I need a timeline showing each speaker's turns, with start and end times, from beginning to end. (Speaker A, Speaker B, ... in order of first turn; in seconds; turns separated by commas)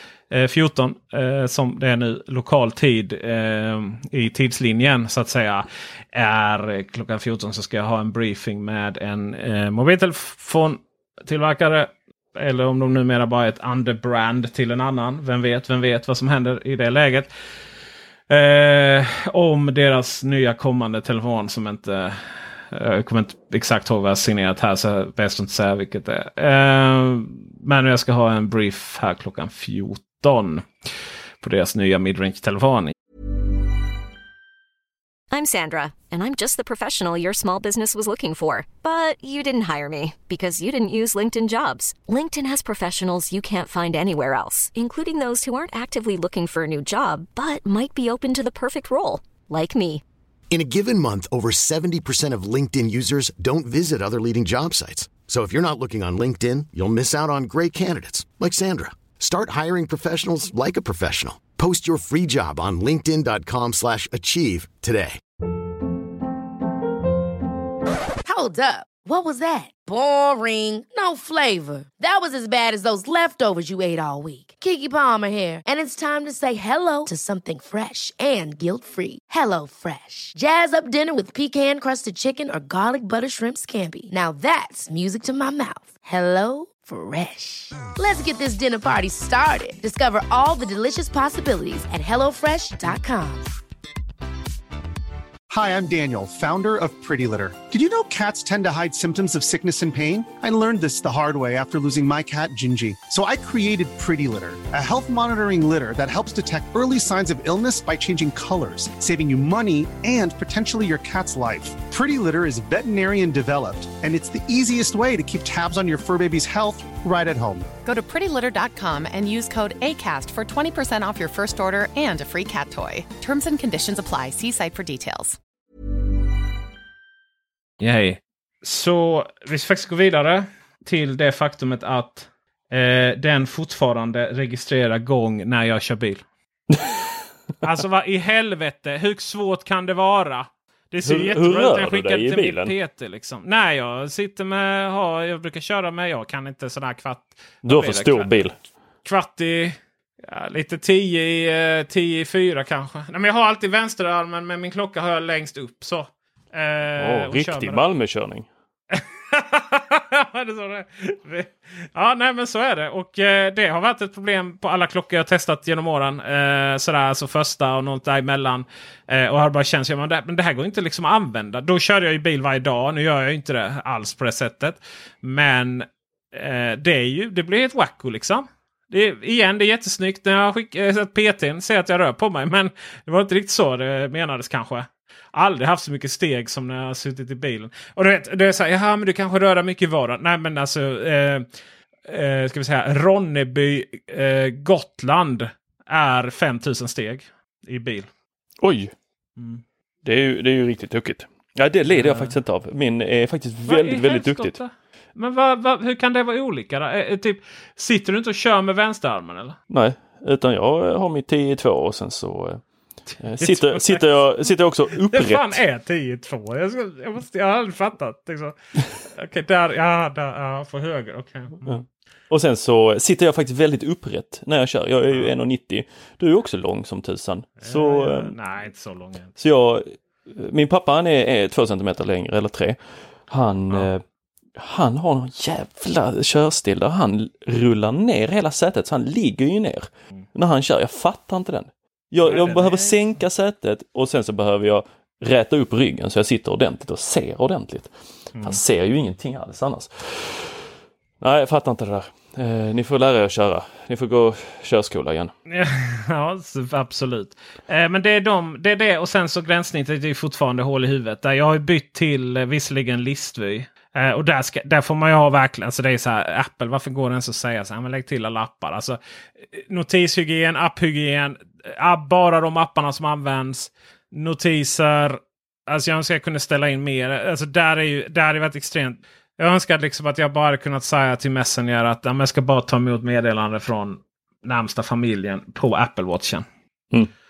Speaker A: 0.3-17.3, Speaker A: 18.3-30.7, Speaker A: 31.4-32.9, Speaker B: 35.3-50.0, Speaker C: 50.5-65.2, Speaker D: 68.2-93.5, Speaker E: 95.5-117.7, Speaker F: 117.8-125.4, Speaker A: 127.8-136.2, Speaker G: 136.7-137.0, Speaker A: 137.6-148.4, Speaker G: 141.0-142.7, Speaker G: 147.6-148.5, Speaker A: 149.0-157.8, Speaker G: 157.0-158.5, Speaker A: 158.9-191.5, Speaker A: 192.1-198.1, Speaker G: 198.6-198.9, Speaker G: 200.0-204.6, Speaker A: 201.9-202.3, Speaker A: 203.7-209.6, Speaker G: 209.7-212.6, Speaker G: 213.2-215.6, Speaker A: 213.4-214.2, Speaker A: 214.9-221.8, Speaker G: 221.7-228.3, Speaker A: 227.6-229.3, Speaker G: 229.4-234.0, Speaker G: 234.6-250.6, Speaker A: 242.2-243.0, Speaker A: 248.3-248.6, Speaker G: 251.2-255.3, Speaker A: 255.5-269.0, Speaker A: 269.5-286.4